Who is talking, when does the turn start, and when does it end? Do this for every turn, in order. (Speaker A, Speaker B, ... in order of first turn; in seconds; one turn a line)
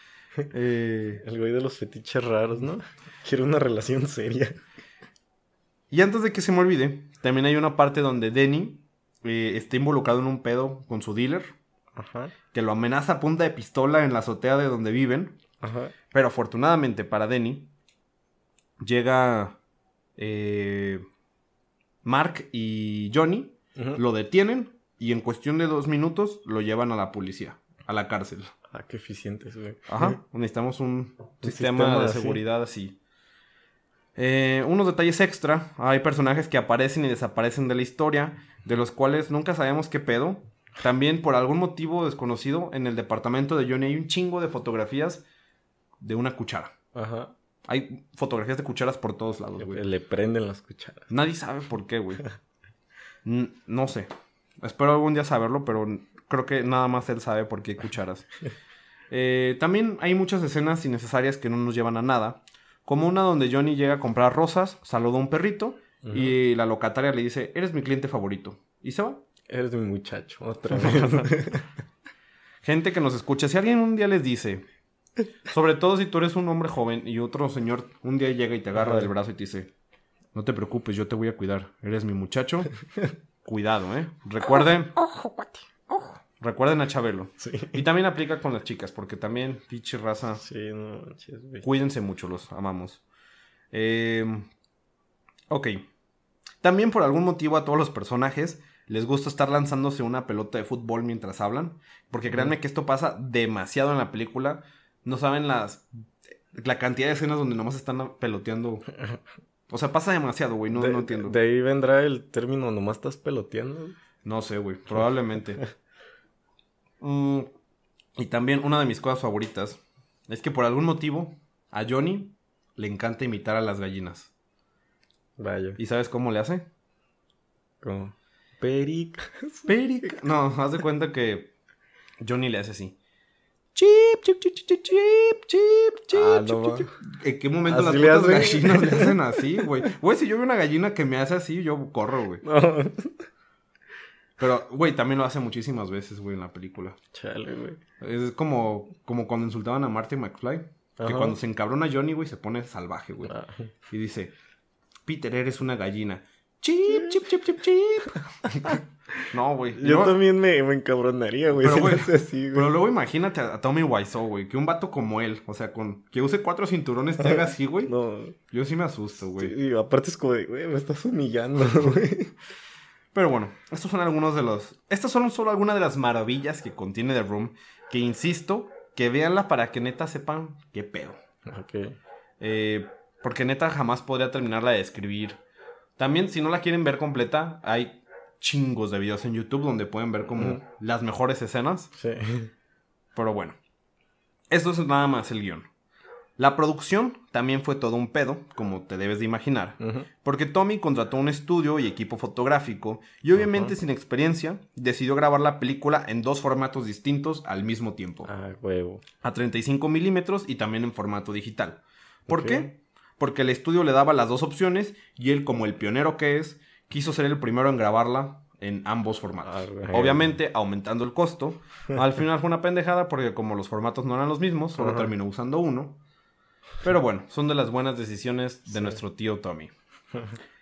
Speaker A: 0.5-1.2
Speaker B: 1.2-4.6
Speaker A: 5.9-11.6
Speaker B: 12.0-12.3
Speaker A: 12.5-15.4
Speaker B: 15.6-15.9
Speaker A: 16.1-17.7
Speaker A: 18.8-19.6
Speaker A: 20.2-21.0
Speaker A: 22.0-28.5
Speaker B: 28.7-30.2
Speaker A: 29.9-33.0
Speaker B: 31.4-32.4
Speaker A: 34.2-45.2
Speaker A: 46.0-46.8
Speaker B: 46.9-47.3
Speaker A: 47.7-49.8
Speaker B: 49.6-51.1
Speaker A: 51.1-52.2
Speaker A: 53.2-58.3
Speaker A: 59.1-69.2
Speaker B: 66.0-66.3
Speaker B: 69.5-71.7
Speaker A: 70.7-71.4
Speaker A: 72.6-74.7
Speaker A: 75.5-79.7
Speaker B: 78.8-79.1
Speaker A: 80.3-82.7
Speaker A: 83.4-85.0
Speaker B: 85.1-86.0
Speaker A: 86.4-90.4
Speaker B: 87.4-87.8
Speaker B: 90.4-91.7
Speaker A: 91.6-93.0
Speaker A: 93.7-94.5
Speaker A: 95.5-95.9
Speaker A: 96.6-105.9
Speaker A: 106.5-108.9
Speaker A: 109.7-111.4
Speaker B: 110.7-114.0
Speaker A: 114.2-115.6
Speaker A: 117.0-117.5
Speaker A: 118.2-124.3
Speaker B: 125.4-125.8
Speaker A: 125.8-126.7
Speaker B: 127.8-129.7
Speaker A: 129.7-131.5
Speaker A: 132.2-133.0
Speaker A: 133.8-142.4
Speaker B: 136.1-136.9
Speaker B: 137.7-139.6
Speaker B: 142.4-143.3
Speaker A: 144.4-147.0
Speaker B: 147.1-147.8
Speaker A: 148.0-153.4
Speaker B: 151.0-151.4
Speaker B: 153.3-153.7
Speaker A: 153.9-154.3
Speaker A: 155.1-160.2
Speaker B: 159.7-162.7
Speaker A: 161.5-167.9
Speaker B: 167.2-168.4
Speaker A: 168.5-169.6
Speaker B: 169.4-172.3
Speaker A: 173.1-181.2
Speaker B: 181.5-182.0
Speaker A: 182.4-185.4
Speaker A: 186.0-191.9
Speaker B: 190.4-190.6
Speaker B: 191.9-192.5
Speaker A: 193.2-193.6
Speaker A: 194.5-195.7
Speaker A: 196.4-208.3
Speaker B: 199.8-200.1
Speaker B: 203.4-203.7
Speaker B: 208.2-209.0
Speaker A: 209.2-226.0
Speaker B: 212.3-212.7
Speaker B: 219.4-220.3
Speaker B: 224.8-225.1
Speaker A: 226.8-229.7
Speaker B: 228.7-229.0